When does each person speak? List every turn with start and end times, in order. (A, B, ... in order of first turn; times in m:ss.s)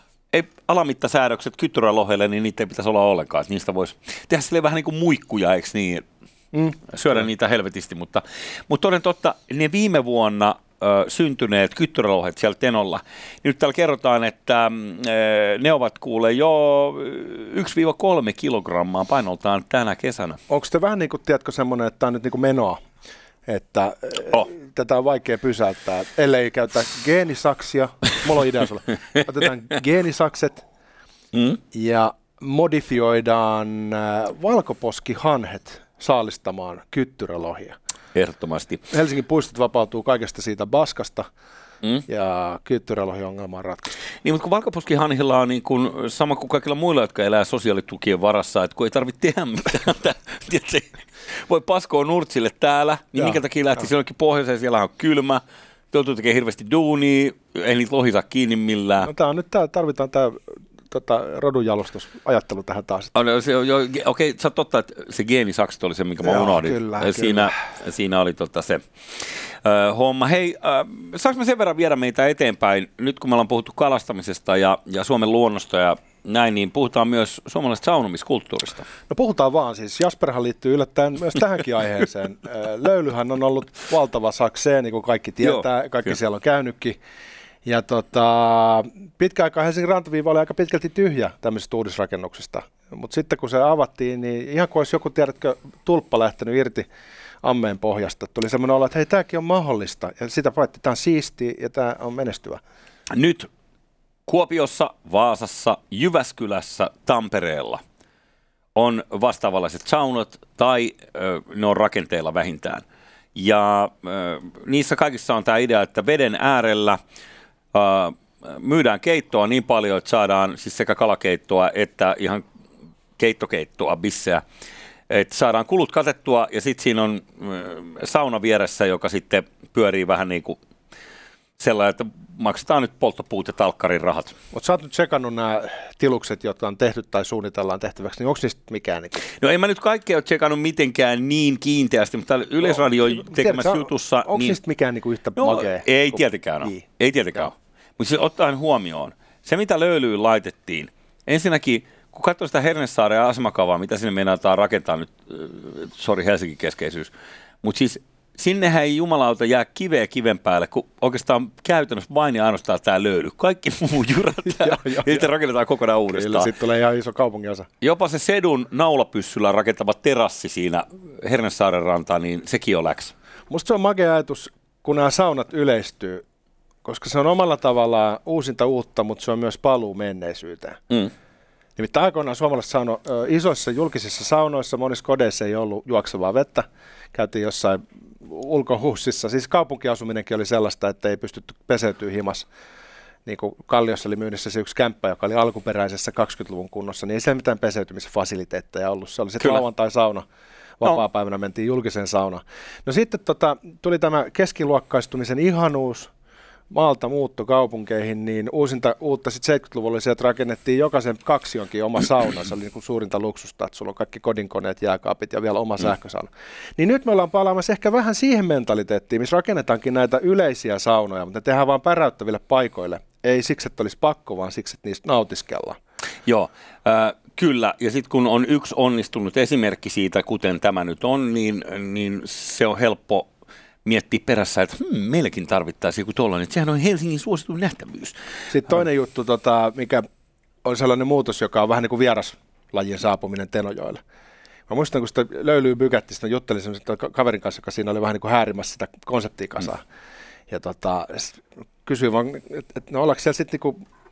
0:00.3-0:06.0 A
0:06.5-0:06.8 B
0:06.9-0:20.4 A
0:20.5-0:22.8 B
0:23.5-0:30.6 B
0:31.3-0:31.6 A
0:31.7-0:37.8 B
0:38.1-0:38.8 A
0:38.9-0:41.3 B
0:42.1-0:43.9 B
0:44.2-0:59.1 A
0:59.0-1:00.4 B
1:00.9-1:03.1 B
1:03.1-1:08.8 A
1:06.2-1:07.6 B
1:09.6-1:18.9 A
1:19.1-1:27.0 B
1:27.6-1:36.9 B
1:37.4-1:42.6 B
1:43.1-1:43.5 A
1:44.3-1:47.8 A
1:48.7-1:52.8 A
1:53.3-1:57.0 A
1:57.7-2:02.4 A
2:03.2-2:04.4 A
2:05.1-2:10.6 A
2:11.6-2:14.4 A
2:14.5-2:19.2 B
2:19.2-2:24.6 A
2:22.6-2:26.8 B
2:25.4-2:37.1 A
2:37.6-2:46.5 A
2:44.6-2:45.3 B
2:46.1-2:47.7 B
2:47.8-2:53.1 A
2:53.5-2:56.2 B
2:56.8-3:00.8 B
3:01.8-3:12.4 B
3:13.2-3:20.2 B
3:20.8-3:26.1 B
3:26.7-3:45.8 B
3:46.2-3:53.3 A
3:53.8-3:58.2 A
3:58.5-4:00.1 B
4:00.6-4:04.0 B
4:04.7-4:09.8 B
4:10.5-4:13.8 B